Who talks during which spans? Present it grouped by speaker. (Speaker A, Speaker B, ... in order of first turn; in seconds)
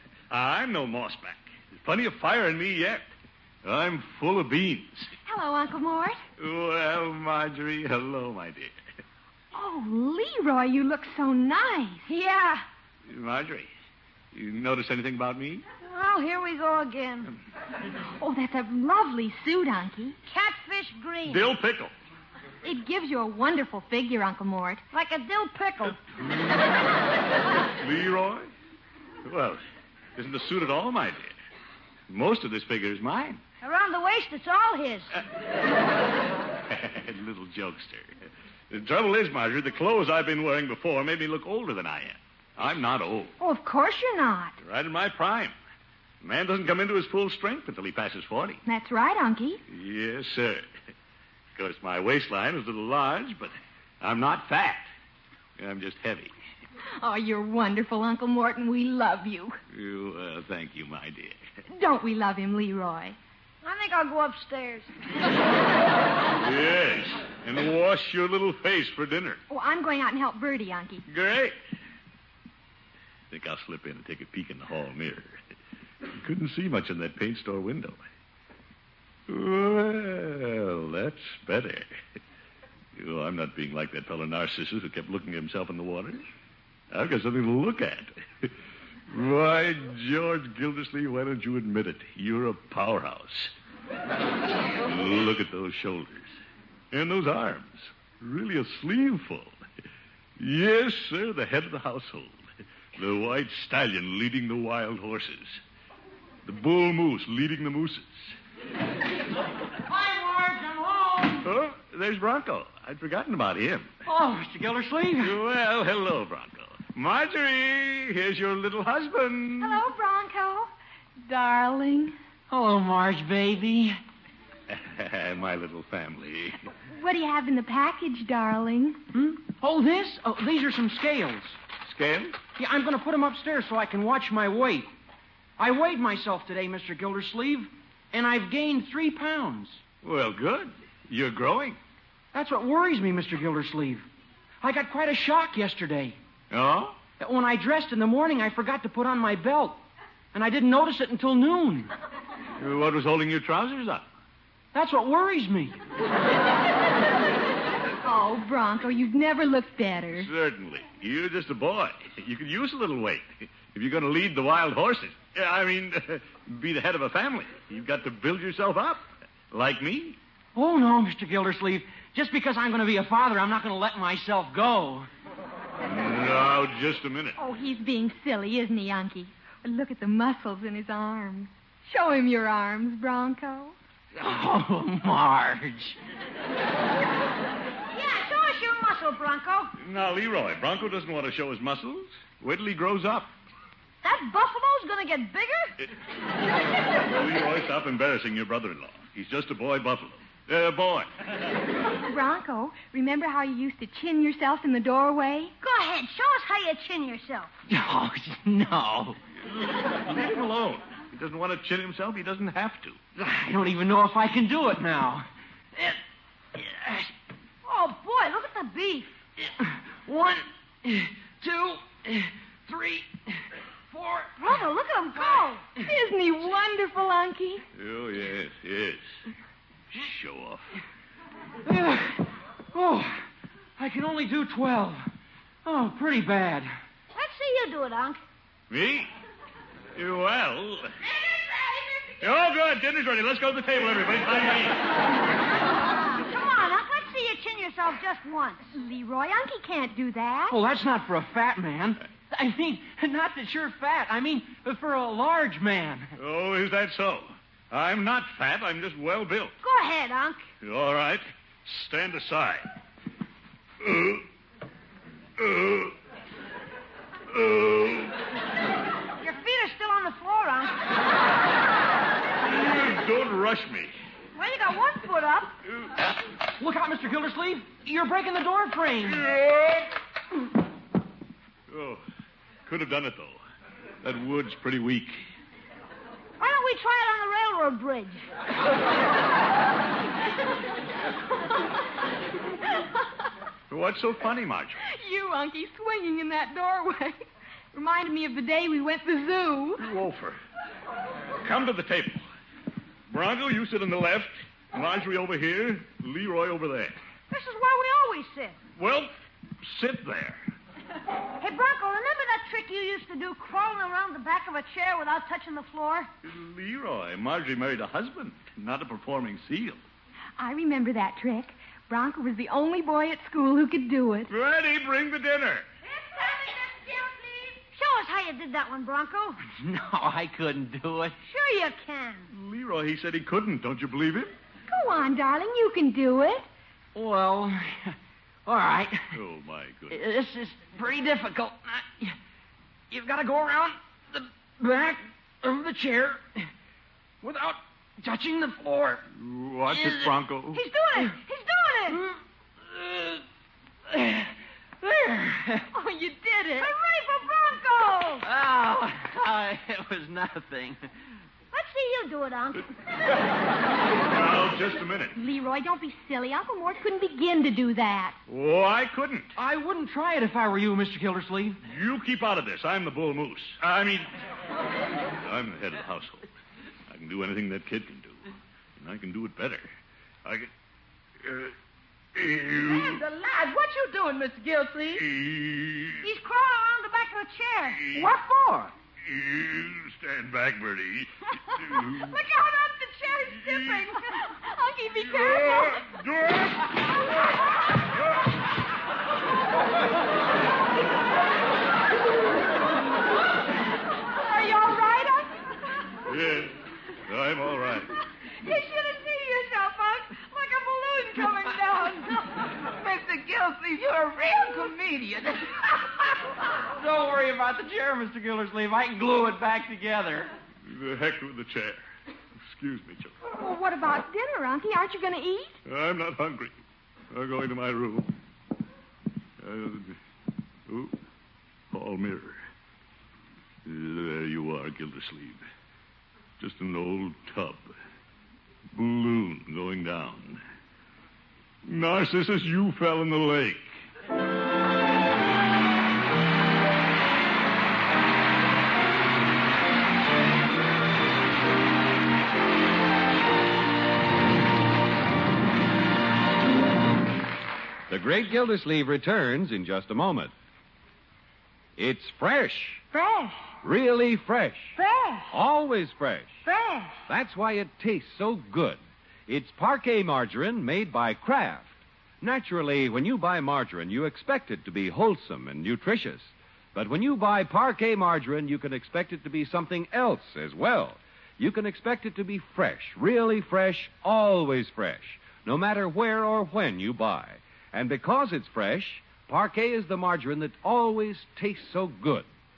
Speaker A: 0.3-3.1, 3.6-5.1, 6.4-8.8, 13.1-13.7, 14.3-15.6, 21.3-21.9, 27.7-28.5, 29.2-29.6, 30.2-31.4, 32.1-33.4, 36.7-38.1, 38.7-43.3, 44.6-45.5, 46.2-48.6, 49.7-50.7, 51.6-54.9, 55.6-56.3, 59.7-61.4, 66.4-69.4, 71.1-71.6, 73.3-75.4, 76.1-78.0, 79.3-81.9, 83.0-86.2, 86.9-88.5, 89.1-93.5, 94.8-96.3, 96.9-99.6, 100.4-102.4, 103.0-105.6, 106.5-108.3, 111.4-113.9, 115.2-119.8, 124.7-126.6, 131.9-132.4, 140.0-141.8, 146.5-147.0, 152.6-154.1, 160.2-170.2, 175.9-177.4, 189.8-193.3, 196.8-201.1, 209.5-213.0, 227.8-229.1, 229.9-230.7, 238.7-239.1, 240.0-241.0, 242.2-244.9, 256.2-259.6, 260.6-262.7, 263.8-264.2, 265.4-265.9, 267.3-268.2, 272.4-273.9, 275.7-276.1, 279.1-279.9, 281.7-282.0, 282.7-283.4, 284.0-285.2, 293.7-294.8, 299.8-300.4, 301.4-302.2, 303.1-307.0, 308.8-309.1, 309.6-310.4, 316.2-319.8, 324.3-325.7, 332.3-334.3, 339.1-340.0, 349.1-350.6, 364.0-365.1, 368.3-369.3, 371.6-374.1, 375.2-376.3, 376.9-378.3, 378.8-379.7, 381.2-381.5, 382.1-383.0, 385.0-386.1, 387.8-388.1, 389.1-392.2, 393.5-393.9, 395.1-396.8, 406.1-406.6, 407.1-407.9, 420.7-421.8, 422.5-423.1, 425.6-426.5, 427.1-428.1, 429.4-430.0, 430.7-430.9, 431.7-432.4, 433.6-435.4, 436.4-437.7, 438.7-440.4, 441.6-443.7
Speaker B: 5.3-6.2, 9.5-12.1, 18.2-20.1, 22.6-24.8, 43.4-44.5, 48.7-49.6, 57.0-59.6, 61.7-63.2, 69.5-71.0, 119.6-120.7, 121.2-122.2, 126.9-129.0, 158.0-160.3, 177.4-183.8, 201.9-205.5, 225.8-227.6, 248.7-250.6, 294.9-297.2, 297.7-299.8, 320.4-324.3, 334.7-336.5, 355.7-356.7, 365.1-368.2, 392.2-395.9, 404.1-405.3, 408.4-412.2, 423.4-425.6, 462.9-463.3, 466.5-466.7
Speaker C: 12.1-12.7, 15.8-17.3, 20.3-21.5, 24.9-26.0, 33.6-35.1, 63.6-64.9, 187.9-189.7, 194.0-195.7, 205.6-207.5, 217.7-219.2, 224.4-225.6, 237.1-238.2, 245.8-248.6, 259.6-260.4, 269.2-270.9, 274.4-275.6, 286.4-288.2, 307.3-308.6, 311.4-316.1, 327.7-329.4, 331.2-332.3, 350.5-352.0, 356.6-358.2, 361.5-362.7, 386.0-387.9
Speaker D: 109.8-111.5, 114.1-115.4, 122.5-124.0, 129.1-131.6, 132.6-134.9, 135.6-139.8, 142.3-144.1, 144.6-146.2, 147.2-149.8, 150.3-151.9, 154.7-155.8, 170.6-175.1, 184.2-186.0, 207.7-209.2, 213.2-216.0, 216.6-217.1, 219.4-223.4, 223.9-224.3, 231.7-233.2, 233.8-235.1, 235.7-236.7, 250.5-256.1, 276.6-279.2, 329.4-331.1, 336.9-339.2, 339.9-342.2, 342.9-346.5, 347.2-349.0, 349.7-350.1, 351.9-353.2, 353.9-355.7, 358.2-360.8, 369.4-371.6, 416.7-420.3
Speaker E: 241.1-242.2, 326.5-327.5, 382.5-385.1, 387.9-388.7, 412.6-416.2
Speaker F: 457.9-460.3, 461.8-462.8, 463.6-464.8, 465.3-466.4, 467.1-492.3